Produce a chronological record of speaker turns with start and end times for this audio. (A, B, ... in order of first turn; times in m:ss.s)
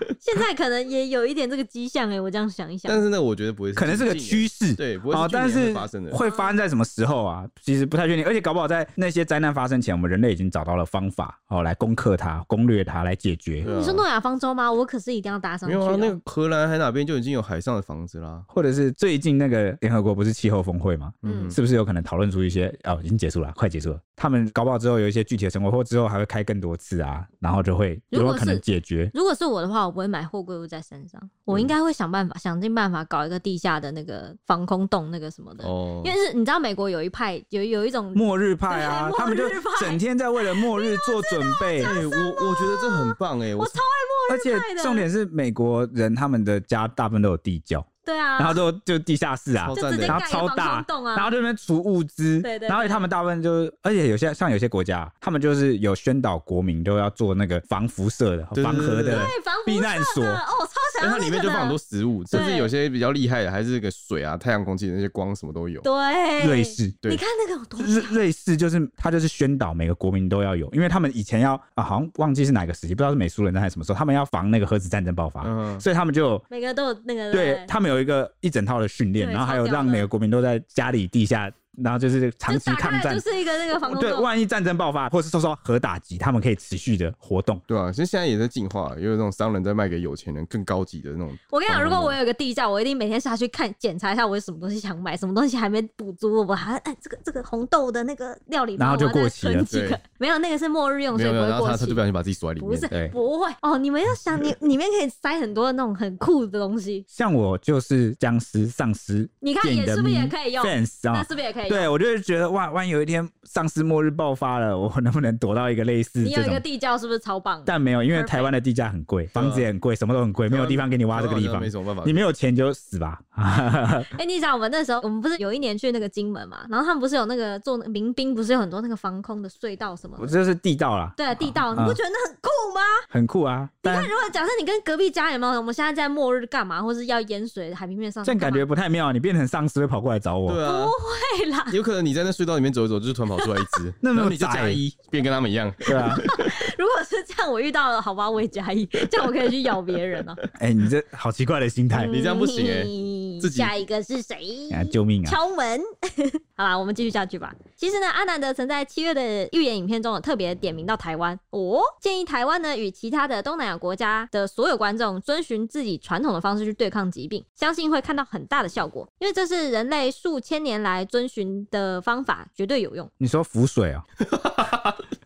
0:00.2-0:03.0 A
0:02.8-0:06.2 B
0:03.8-0:13.7 C
0:06.1-0:06.6 A
0:13.6-0:14.0 B
0:13.6-0:16.2 A
0:15.6-0:18.5 B
0:18.5-0:29.1 C
0:21.2-0:21.6 B
0:21.2-0:21.6 A
0:28.1-0:45.1 A
0:35.6-0:36.2 B
0:38.1-0:41.9 C
0:41.8-0:43.8 B
0:44.3-1:00.4 C
0:48.0-0:48.6 A
0:49.6-0:50.2 B
0:49.7-0:51.3 A
0:52.4-0:53.1 A
0:58.5-0:59.3 B
0:59.0-1:01.8 A
1:01.0-1:05.9 B
1:02.3-1:02.7 A
1:05.8-1:08.2 A
1:06.4-1:07.0 C
1:07.8-1:16.4 C
1:15.4-1:15.8 B
1:16.5-1:17.7 A
1:17.3-1:23.2 C
1:19.2-1:20.1 A
1:22.5-1:24.3 A
1:23.8-1:27.6 C
1:27.7-1:32.2 B
1:31.5-1:42.0 A
1:38.8-1:39.7 C
1:39.7-1:40.0 B
1:41.1-1:43.1 B
1:42.6-1:47.0 A
1:47.1-1:56.6 C
1:49.4-1:51.9 A
1:56.2-1:58.5 A
1:57.6-2:04.1 C
1:59.3-1:59.7 B
2:00.5-2:02.2 B
2:04.1-2:10.4 A
2:10.2-2:12.0 C
2:11.2-2:13.0 A
2:13.1-2:14.1 C
2:13.8-2:18.6 A
2:18.2-2:20.6 C
2:20.5-2:21.0 B
2:20.6-2:21.8 A
2:21.7-2:26.5 B
2:23.4-2:23.7 A
2:24.0-2:24.8 C
2:25.9-2:26.2 C
2:26.2-2:30.4 A
2:30.6-2:32.2 C
2:31.9-2:53.1 A
2:32.1-2:33.7 B
2:34.7-2:35.4 C
2:53.2-2:54.0 C
2:54.2-2:55.0 B